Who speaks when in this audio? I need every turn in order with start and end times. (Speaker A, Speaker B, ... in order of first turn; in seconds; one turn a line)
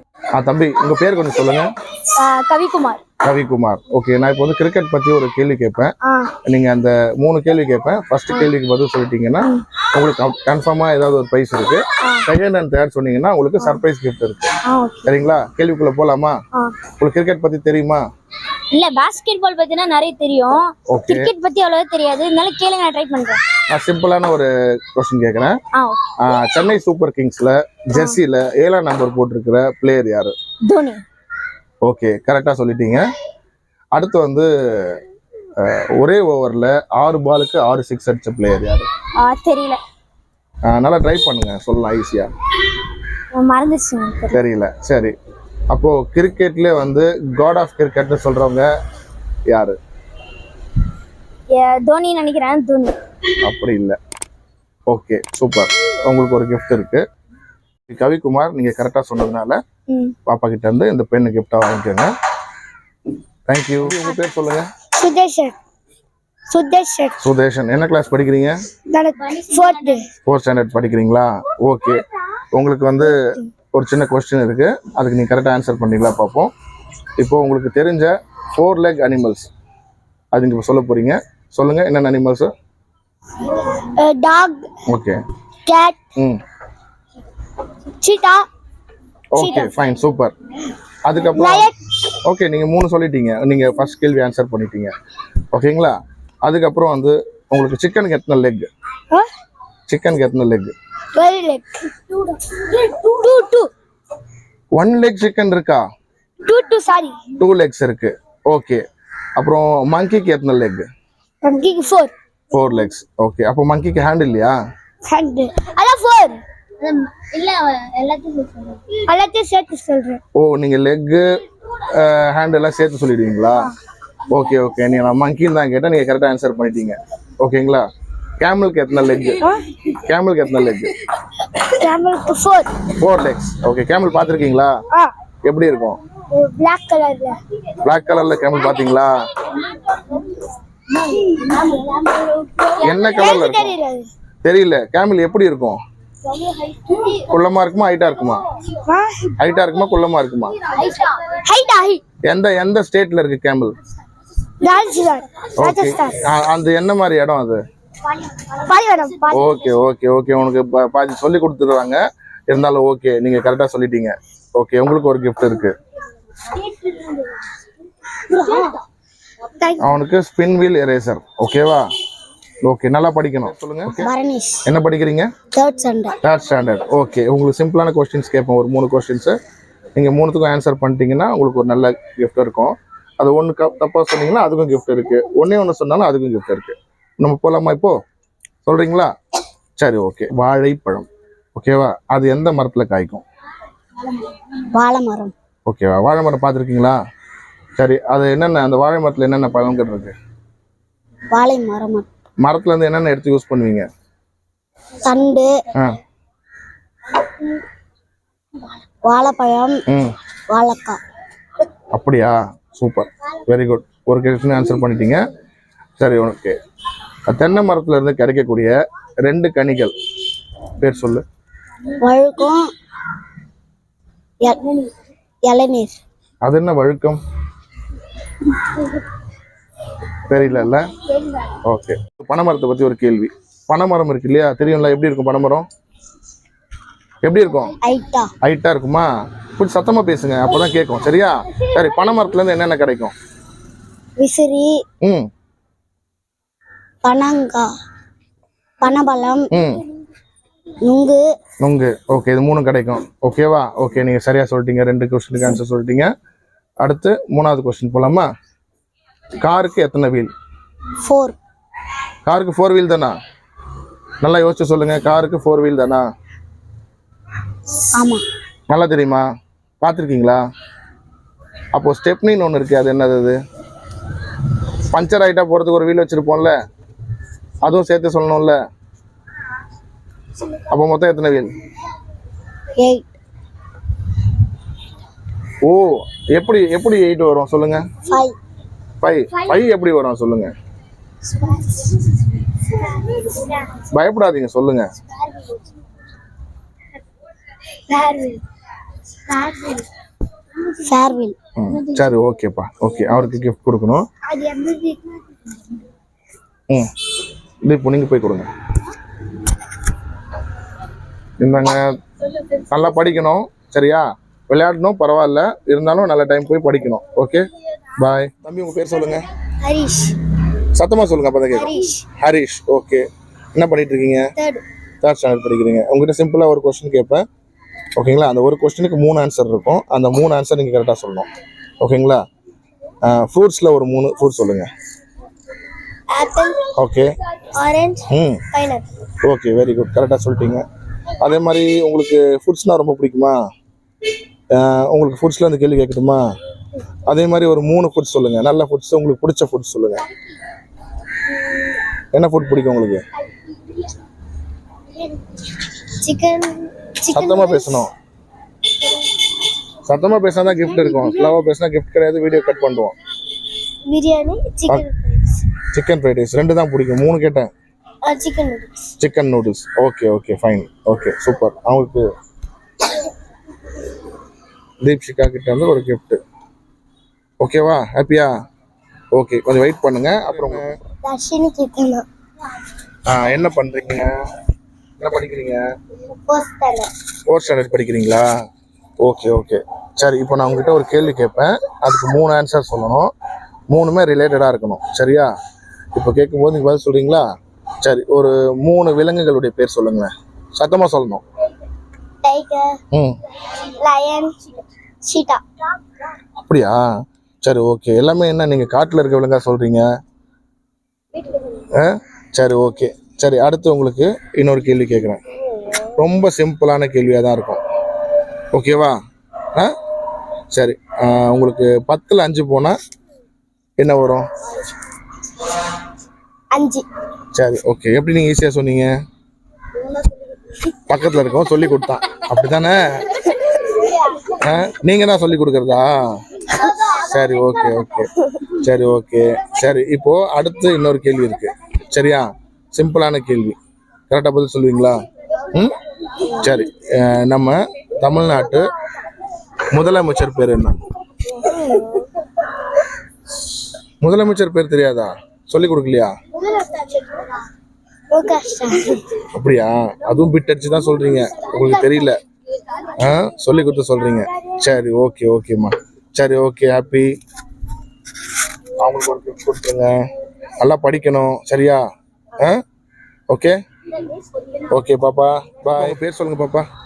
Speaker A: 0.3-1.7
Speaker B: 2.1-3.0
Speaker A: 3.2-5.9
Speaker A: 6.4-14.5
Speaker B: 14.7-15.1
Speaker A: 15.1-16.4
Speaker A: 17.0-18.0
Speaker B: 18.7-23.4
Speaker A: 20.9-21.3
Speaker A: 23.7-25.6
Speaker B: 25.7-26.0
Speaker A: 26.2-30.3
Speaker B: 30.6-31.0
Speaker A: 31.8-33.0
Speaker A: 33.9-35.0
Speaker A: 35.6-38.9
Speaker B: 39.2-39.8
Speaker A: 40.6-42.3
Speaker B: 43.3-44.4
Speaker A: 44.3-45.1
Speaker A: 45.7-48.7
Speaker A: 49.5-49.8
Speaker B: 51.5-53.0
Speaker A: 53.4-54.0
Speaker A: 54.9-57.0
Speaker A: 57.9-59.6
Speaker A: 60.2-62.1
Speaker A: 63.5-64.7
Speaker C: 65.0-65.5
Speaker C: 66.5-67.2
Speaker A: 67.2-68.6
Speaker C: 68.9-70.0
Speaker B: 69.2-70.0
Speaker A: 70.2-72.0
Speaker A: 72.5-73.2
Speaker A: 73.7-76.5
Speaker A: 77.2-79.5
Speaker A: 80.3-82.5
Speaker C: 84.0-84.7
Speaker A: 84.9-85.2
Speaker C: 85.7-86.0
Speaker C: 88.0-88.5
Speaker A: 89.3-90.3
Speaker C: 89.4-89.7
Speaker A: 91.0-91.7
Speaker C: 91.3-91.7
Speaker A: 92.2-94.9
Speaker A: 95.5-98.7
Speaker A: 99.9-100.7
Speaker C: 101.1-102.2
Speaker C: 102.7-103.7
Speaker A: 104.7-105.8
Speaker C: 106.4-107.2
Speaker A: 107.4-108.8
Speaker A: 109.3-110.8
Speaker C: 111.4-112.1
Speaker A: 112.5-114.5
Speaker C: 115.1-116.4
Speaker B: 116.8-118.8
Speaker C: 119.1-120.2
Speaker A: 120.3-123.7
Speaker A: 124.3-127.9
Speaker A: 128.4-129.4
Speaker A: 129.9-130.9
Speaker C: 131.6-132.7
Speaker A: 133.0-134.7
Speaker A: 135.4-136.0
Speaker C: 136.3-137.3
Speaker A: 137.8-139.2
Speaker B: 141.1-141.8
Speaker C: 141.1-144.1
Speaker B: 142.6-143.4
Speaker A: 142.8-143.8
Speaker A: 144.4-145.8
Speaker A: 147.2-148.4
Speaker C: 148.9-149.3
Speaker A: 149.4-150.6
Speaker B: 150.7-151.1
Speaker C: 151.4-152.0
Speaker A: 152.2-153.8
Speaker C: 154.6-156.1
Speaker A: 155.6-157.6
Speaker C: 158.4-159.4
Speaker A: 159.3-165.8
Speaker C: 168.3-168.8
Speaker C: 169.6-169.9
Speaker A: 169.8-171.9
Speaker A: 172.6-174.1
Speaker C: 173.9-174.7
Speaker A: 174.6-175.3
Speaker C: 175.5-176.2
Speaker A: 176.2-179.4
Speaker A: 179.9-187.9
Speaker A: 188.6-189.1
Speaker A: 189.8-193.2
Speaker C: 194.7-195.3
Speaker A: 195.7-197.0
Speaker A: 197.8-200.1
Speaker C: 201.3-202.1
Speaker A: 202.4-203.9
Speaker C: 205.0-205.5
Speaker C: 209.0-209.8
Speaker A: 209.9-210.2
Speaker C: 210.5-211.0
Speaker A: 211.9-215.2
Speaker A: 216.0-216.5
Speaker A: 217.3-219.9
Speaker A: 220.8-221.2
Speaker C: 221.9-222.7
Speaker C: 224.4-224.8
Speaker C: 225.4-226.0
Speaker A: 226.4-227.2
Speaker A: 230.3-230.8
Speaker A: 231.6-235.7
Speaker A: 237.2-237.7
Speaker C: 237.8-238.3
Speaker A: 238.4-243.1
Speaker C: 244.2-244.8
Speaker A: 245.0-245.3
Speaker C: 247.0-247.7
Speaker C: 248.8-249.5
Speaker A: 249.5-249.8
Speaker C: 250.8-251.2
Speaker A: 251.6-256.1
Speaker A: 256.8-258.3
Speaker A: 259.4-260.3
Speaker C: 261.0-261.4
Speaker A: 262.2-263.2
Speaker A: 264.2-266.1
Speaker C: 267.9-268.2
Speaker A: 268.7-269.2
Speaker A: 269.8-270.4
Speaker A: 271.7-273.4
Speaker A: 274.9-276.5
Speaker A: 277.6-278.6
Speaker A: 280.7-281.5
Speaker C: 282.8-283.1
Speaker A: 285.6-287.9
Speaker C: 288.1-288.4
Speaker A: 289.0-290.5
Speaker C: 291.3-291.9
Speaker C: 292.9-293.6
Speaker A: 293.9-294.9
Speaker C: 297.9-298.3
Speaker C: 299.3-299.8
Speaker C: 300.7-301.4
Speaker A: 301.6-304.1
Speaker C: 304.3-305.0
Speaker A: 307.6-308.5
Speaker A: 311.4-311.9
Speaker A: 312.7-319.2
Speaker C: 319.6-320.1
Speaker A: 320.7-324.2
Speaker C: 321.5-322.0
Speaker C: 324.4-324.6
Speaker A: 325.0-327.2
Speaker A: 327.9-331.3
Speaker A: 331.8-332.2
Speaker A: 333.0-334.7
Speaker C: 336.1-336.6
Speaker A: 336.8-337.1
Speaker C: 337.5-338.9
Speaker A: 338.1-338.4
Speaker A: 339.2-340.6
Speaker A: 341.2-343.3
Speaker A: 344.5-346.2
Speaker A: 347.1-350.0
Speaker A: 352.1-353.0
Speaker C: 356.0-357.8
Speaker A: 357.1-357.9
Speaker A: 359.8-362.9
Speaker C: 360.7-361.3
Speaker C: 363.9-365.4
Speaker A: 365.7-367.5
Speaker C: 368.0-368.9
Speaker A: 369.0-372.1
Speaker A: 374.8-376.2
Speaker A: 377.4-378.3
Speaker A: 379.1-380.8
Speaker C: 381.0-382.1
Speaker A: 383.1-384.1
Speaker A: 385.0-385.6
Speaker C: 386.1-386.9
Speaker A: 387.3-388.3
Speaker A: 389.0-393.1
Speaker A: 393.7-395.3
Speaker A: 395.9-397.2
Speaker A: 397.8-401.2
Speaker C: 402.2-402.8
Speaker C: 403.6-404.4
Speaker C: 405.0-405.4
Speaker A: 406.4-406.8
Speaker A: 407.4-409.8
Speaker A: 411.7-415.2
Speaker C: 415.6-415.9
Speaker A: 416.0-417.6
Speaker A: 418.5-418.9
Speaker A: 420.5-422.8
Speaker A: 423.8-424.2
Speaker C: 426.5-426.8
Speaker A: 427.3-428.9
Speaker A: 430.9-433.2
Speaker A: 434.4-436.1
Speaker C: 436.6-437.0
Speaker A: 436.9-443.6
Speaker A: 444.1-445.0
Speaker A: 445.5-448.7
Speaker A: 449.7-450.8
Speaker C: 451.3-452.0
Speaker A: 454.0-456.1
Speaker C: 456.4-457.4
Speaker C: 458.1-459.2
Speaker A: 459.3-462.2
Speaker C: 461.5-462.1
Speaker A: 463.0-467.1
Speaker A: 468.8-469.9
Speaker A: 470.6-471.8
Speaker A: 473.3-473.5
Speaker A: 474.7-476.7